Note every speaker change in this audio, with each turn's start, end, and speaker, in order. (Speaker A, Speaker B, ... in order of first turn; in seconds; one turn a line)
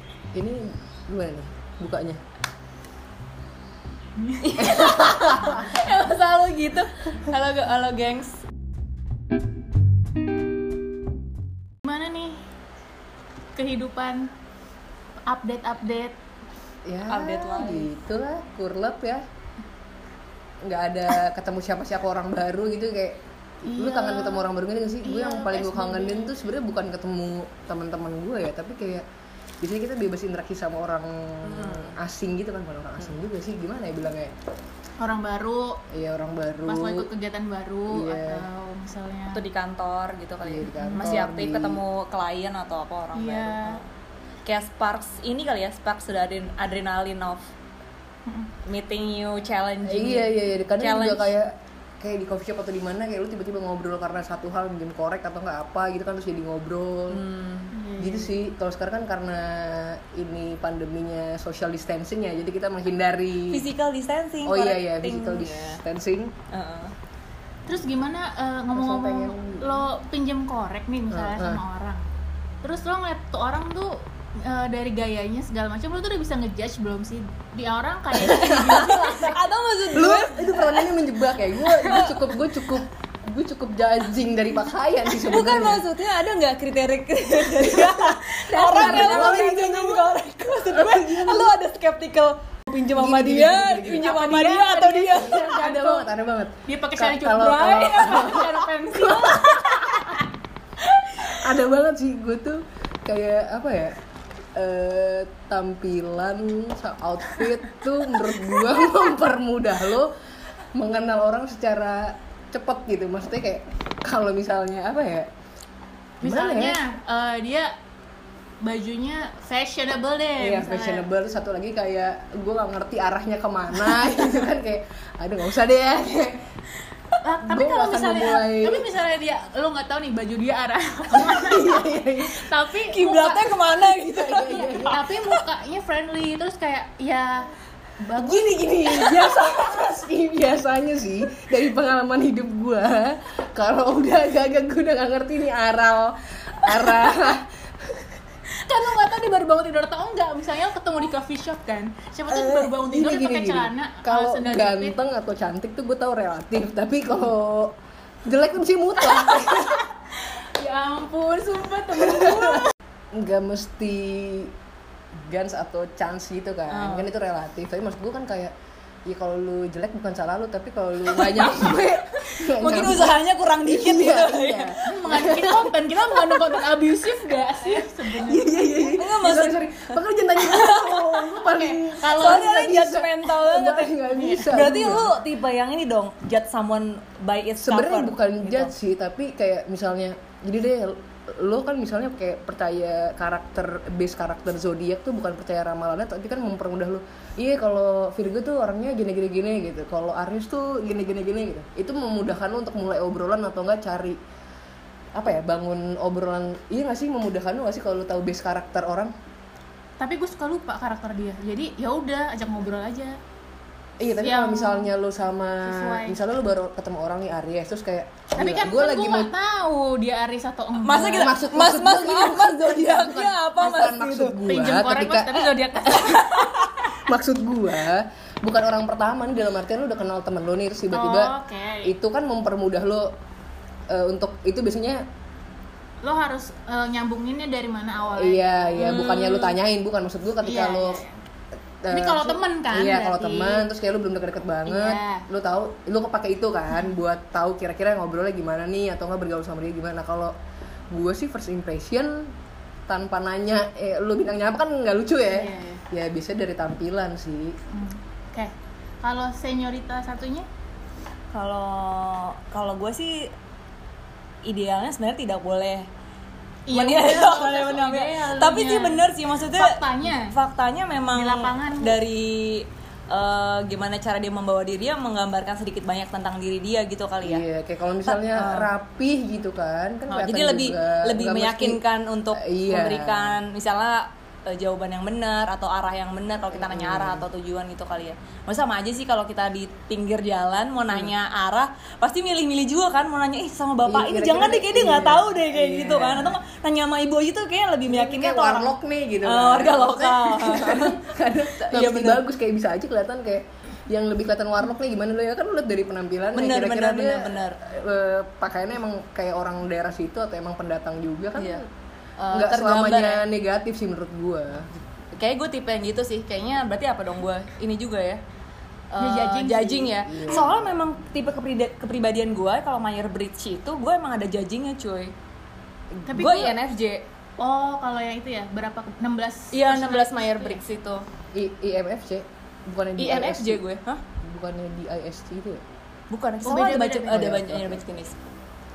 Speaker A: 0.3-2.2
Speaker B: 4.2-4.6
Speaker C: 4.4-8.4
Speaker A: 4.6-5.6
Speaker B: 11.8-12.4
Speaker B: 13.6-14.3
Speaker B: 15.3-16.1
Speaker A: 16.9-19.2
Speaker C: 17.1-17.9
Speaker A: 20.6-29.1
Speaker B: 23.6-24.5
Speaker B: 25.0-26.3
Speaker A: 29.6-34.3
Speaker C: 31.4-32.0
Speaker B: 35.0-35.8
Speaker A: 35.9-37.1
Speaker B: 36.7-39.4
Speaker A: 37.9-38.5
Speaker C: 39.3-43.9
Speaker A: 40.4-41.8
Speaker B: 40.8-41.2
Speaker B: 43.1-43.8
Speaker C: 44.5-47.5
Speaker B: 48.3-48.5
Speaker C: 48.6-51.3
Speaker A: 49.9-57.2
Speaker C: 57.1-57.7
Speaker B: 57.7-58.4
Speaker A: 58.0-63.7
Speaker C: 63.5-65.8
Speaker A: 64.5-66.3
Speaker C: 66.5-66.9
Speaker B: 67.7-72.1
Speaker A: 68.7-69.9
Speaker A: 71.1-71.6
Speaker B: 72.6-79.4
Speaker A: 78.2-79.0
Speaker C: 78.5-81.0
Speaker A: 79.9-85.8
Speaker C: 81.6-82.4
Speaker C: 85.1-95.4
Speaker B: 88.4-89.7
Speaker A: 88.7-90.1
Speaker A: 90.7-91.5
Speaker A: 92.9-94.1
Speaker B: 93.9-96.1
Speaker A: 95.1-99.7
Speaker B: 96.7-99.8
Speaker C: 97.8-98.4
Speaker C: 99.3-100.1
Speaker A: 101.2-104.0
Speaker A: 104.5-110.1
Speaker A: 110.8-115.3
Speaker A: 116.2-116.8
Speaker B: 116.2-117.7
Speaker B: 118.6-121.1
Speaker A: 120.4-126.5
Speaker B: 127.2-137.5
Speaker A: 127.4-128.9
Speaker A: 131.1-132.4
Speaker C: 132.8-135.4
Speaker A: 134.1-135.0
Speaker B: 138.0-139.2
Speaker A: 138.2-148.1
Speaker B: 148.6-154.9
Speaker A: 152.3-157.7
Speaker A: 158.2-159.9
Speaker B: 160.1-162.7
Speaker A: 162.1-162.4
Speaker A: 163.2-164.5
Speaker A: 165.3-168.5
Speaker C: 166.7-167.1
Speaker A: 169.1-176.6
Speaker C: 171.1-175.1
Speaker B: 174.8-178.8
Speaker A: 178.2-185.1
Speaker C: 178.9-181.4
Speaker B: 181.4-182.5
Speaker C: 182.0-188.7
Speaker B: 184.1-184.7
Speaker A: 187.6-204.2
Speaker A: 205.2-209.1
Speaker B: 210.0-213.2
Speaker A: 214.0-219.3
Speaker B: 214.2-214.9
Speaker B: 215.6-216.2
Speaker B: 218.4-221.5
Speaker C: 220.8-224.5
Speaker A: 221.1-226.2
Speaker B: 224.5-226.4
Speaker C: 226.0-226.9
Speaker A: 227.0-231.3
Speaker B: 230.9-231.9
Speaker A: 231.8-233.1
Speaker A: 233.9-235.0
Speaker B: 236.0-239.2
Speaker A: 238.1-241.0
Speaker C: 238.8-239.6
Speaker B: 240.4-241.2
Speaker A: 241.8-250.3
Speaker B: 241.9-243.7
Speaker B: 244.7-245.3
Speaker A: 250.9-252.3
Speaker A: 252.9-257.6
Speaker B: 255.3-255.8
Speaker B: 257.7-260.5
Speaker C: 261.3-263.3
Speaker C: 264.4-265.9
Speaker B: 266.7-270.4
Speaker C: 266.7-277.4
Speaker B: 271.1-272.0
Speaker A: 277.2-281.8
Speaker C: 278.1-278.7
Speaker C: 280.1-301.0
Speaker A: 282.3-283.4
Speaker A: 286.5-287.3
Speaker A: 293.9-296.4
Speaker A: 297.9-311.7
Speaker C: 301.6-302.2
Speaker C: 306.4-307.6
Speaker C: 312.2-313.2
Speaker A: 312.3-314.7
Speaker C: 315.2-318.2
Speaker C: 318.9-325.1
Speaker B: 319.0-319.9
Speaker A: 320.1-320.6
Speaker A: 326.0-326.5
Speaker B: 326.1-326.5
Speaker C: 326.1-327.0
Speaker B: 327.4-330.6
Speaker C: 329.5-331.1
Speaker A: 331.3-333.6
Speaker C: 333.0-334.0
Speaker A: 334.2-335.6
Speaker C: 336.1-338.2
Speaker B: 336.4-337.2
Speaker A: 337.1-337.8